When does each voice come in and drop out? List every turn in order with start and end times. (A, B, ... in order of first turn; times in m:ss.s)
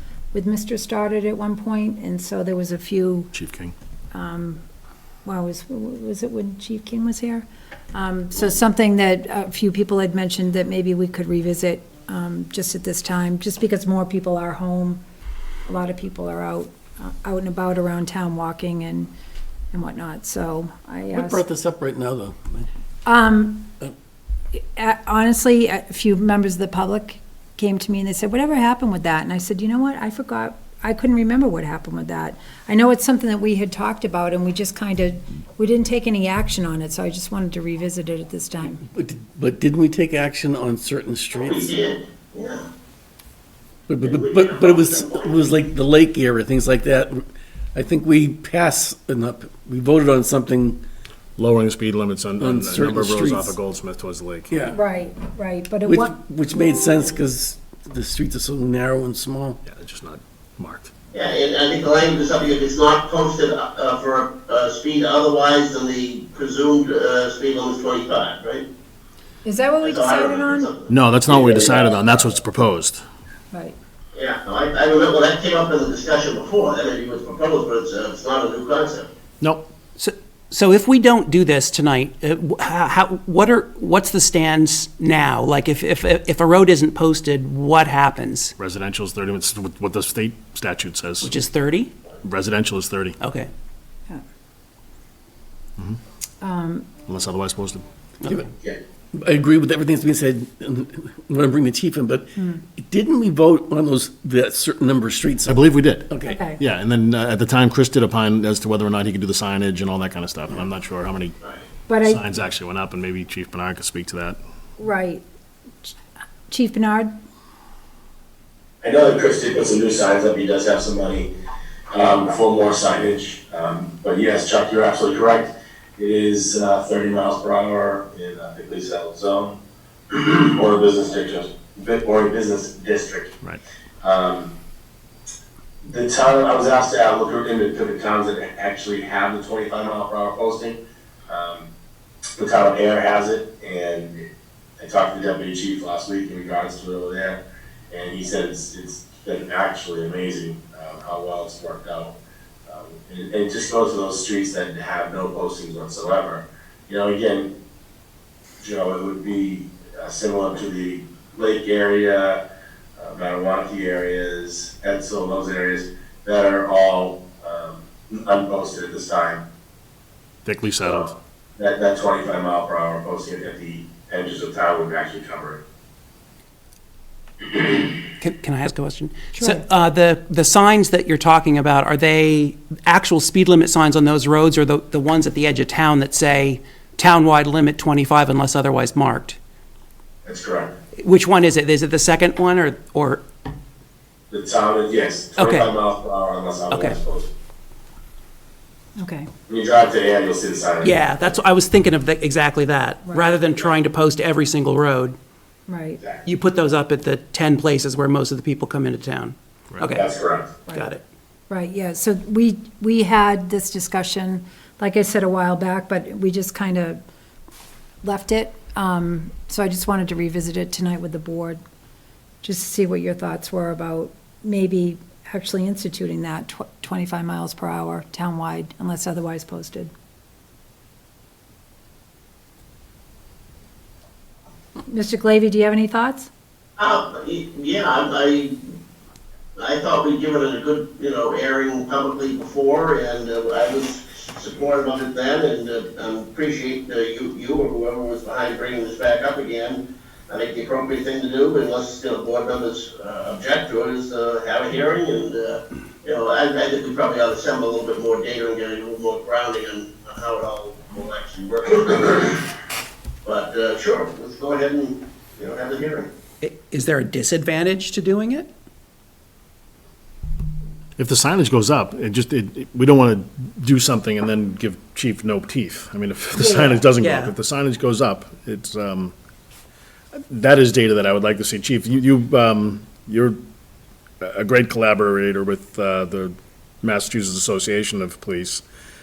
0:00.3-0:03.3 A
0:03.3-0:03.7 B
0:04.1-0:04.6 A
0:05.2-0:15.0 A
0:15.7-0:19.1 A
0:19.7-0:21.4 A
0:21.1-0:22.7 C
0:23.1-0:23.7 A
0:24.6-0:38.8 A
0:38.8-0:41.7 C
0:41.3-0:42.7 D
0:43.9-0:50.8 C
0:44.0-0:45.3 D
0:51.4-0:54.5 B
0:52.4-0:53.6 C
0:54.5-0:54.8 C
0:54.7-0:56.2 A
0:55.8-0:59.6 C
0:59.6-1:00.9 B
1:01.1-1:08.7 D
1:09.4-1:10.7 A
1:09.8-1:12.3 D
1:10.9-1:13.0 B
1:13.5-1:13.8 A
1:14.1-1:19.1 D
1:19.4-1:19.7 B
1:20.0-1:28.5 E
1:28.6-1:31.3 B
1:31.2-1:31.9 E
1:32.2-1:33.2 B
1:33.2-1:33.5 E
1:36.4-1:36.9 A
1:37.1-1:37.8 B
1:39.1-1:46.4 C
1:42.4-1:42.6 A
1:45.5-1:51.4 B
1:46.3-1:46.6 A
1:51.9-1:52.2 A
1:52.1-1:54.4 B
1:54.8-1:55.2 A
1:56.5-1:57.1 A
1:58.8-2:01.3 F
2:01.9-2:09.6 F
2:10.1-2:13.4 F
2:14.0-2:14.5 F
2:15.8-2:21.7 F
2:22.4-2:24.2 F
2:24.8-2:32.1 F
2:32.7-2:37.5 F
2:38.6-2:42.4 F
2:43.0-2:49.4 F
2:50.5-2:51.1 B
2:50.6-2:55.6 F
2:58.2-3:09.4 E
2:59.4-2:59.6 A
3:10.2-3:10.7 F
3:11.0-3:13.2 E
3:14.3-3:17.3 F
3:15.4-3:15.7 E
3:16.7-3:17.0 E
3:19.0-3:19.3 A
3:19.5-3:21.3 F
3:20.8-3:25.2 E
3:23.0-3:23.4 A
3:25.7-3:26.0 A
3:26.2-3:30.1 E
3:30.0-3:30.5 F
3:30.7-3:31.0 E
3:31.5-3:37.0 A
3:38.0-3:41.6 A
3:42.4-3:49.9 A
3:54.9-3:56.3 A
3:56.8-3:58.6 D
3:59.6-4:22.4 D
4:23.2-4:26.1 D
4:26.4-4:28.5 E
4:31.0-4:39.1 B
4:36.4-4:37.3 E
4:40.3-4:43.4 B
4:44.2-4:48.6 B